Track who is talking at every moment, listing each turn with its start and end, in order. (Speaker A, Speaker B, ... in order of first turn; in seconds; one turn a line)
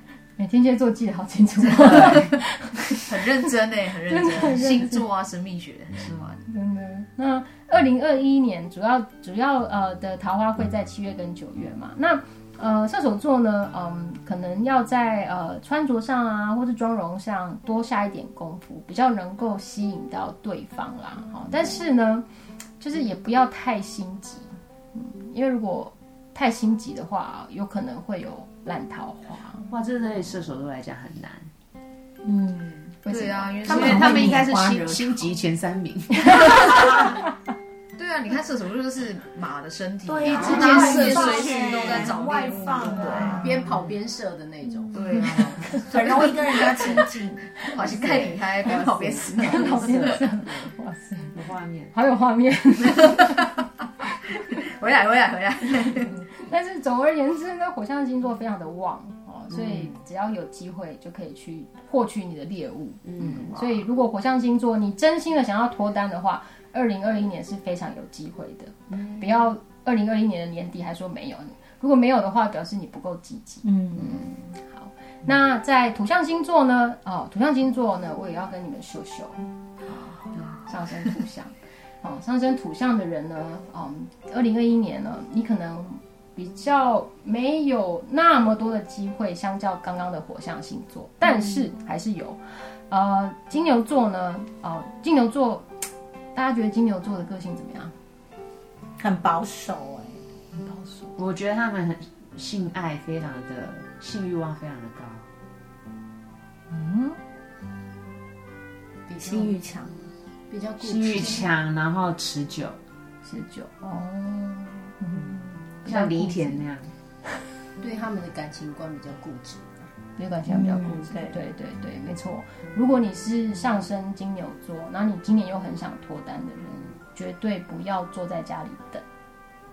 Speaker A: 0.3-3.0
Speaker B: 1.6-2.3
Speaker C: 1.9-2.2
Speaker B: 3.0-6.4
Speaker A: 4.1-5.0
Speaker A: 6.4-22.2
Speaker A: 22.8-29.7
Speaker C: 29.7-31.5
Speaker B: 33.0-34.5
Speaker A: 33.0-34.1
Speaker D: 33.6-35.2
Speaker C: 33.6-37.1
Speaker D: 36.6-37.1
Speaker B: 38.0-43.5
Speaker D: 40.0-43.5
Speaker E: 40.3-41.4
Speaker A: 40.5-40.9
Speaker C: 40.7-41.1
Speaker C: 41.7-42.0
Speaker C: 42.8-43.2
Speaker E: 43.3-45.0
Speaker D: 44.6-47.4
Speaker B: 44.9-47.0
Speaker B: 47.6-50.2
Speaker C: 47.9-50.7
Speaker A: 49.4-51.4
Speaker C: 51.3-51.9
Speaker A: 51.9-53.5
Speaker B: 54.5-56.1
Speaker A: 56.3-79.4
Speaker B: 63.2-63.8
Speaker D: 73.6-74.2
Speaker B: 79.9-81.1
Speaker A: 80.7-95.7
Speaker A: 96.3-97.9
Speaker D: 99.0-100.2
Speaker A: 100.5-101.2
Speaker C: 101.2-105.2
Speaker A: 106.7-107.2
Speaker E: 109.1-109.6
Speaker D: 109.2-109.9
Speaker E: 110.5-111.5
Speaker C: 110.8-112.8
Speaker A: 113.2-116.7
Speaker C: 115.8-116.9
Speaker E: 117.8-119.7
Speaker A: 120.2-129.0
Speaker D: 120.5-121.3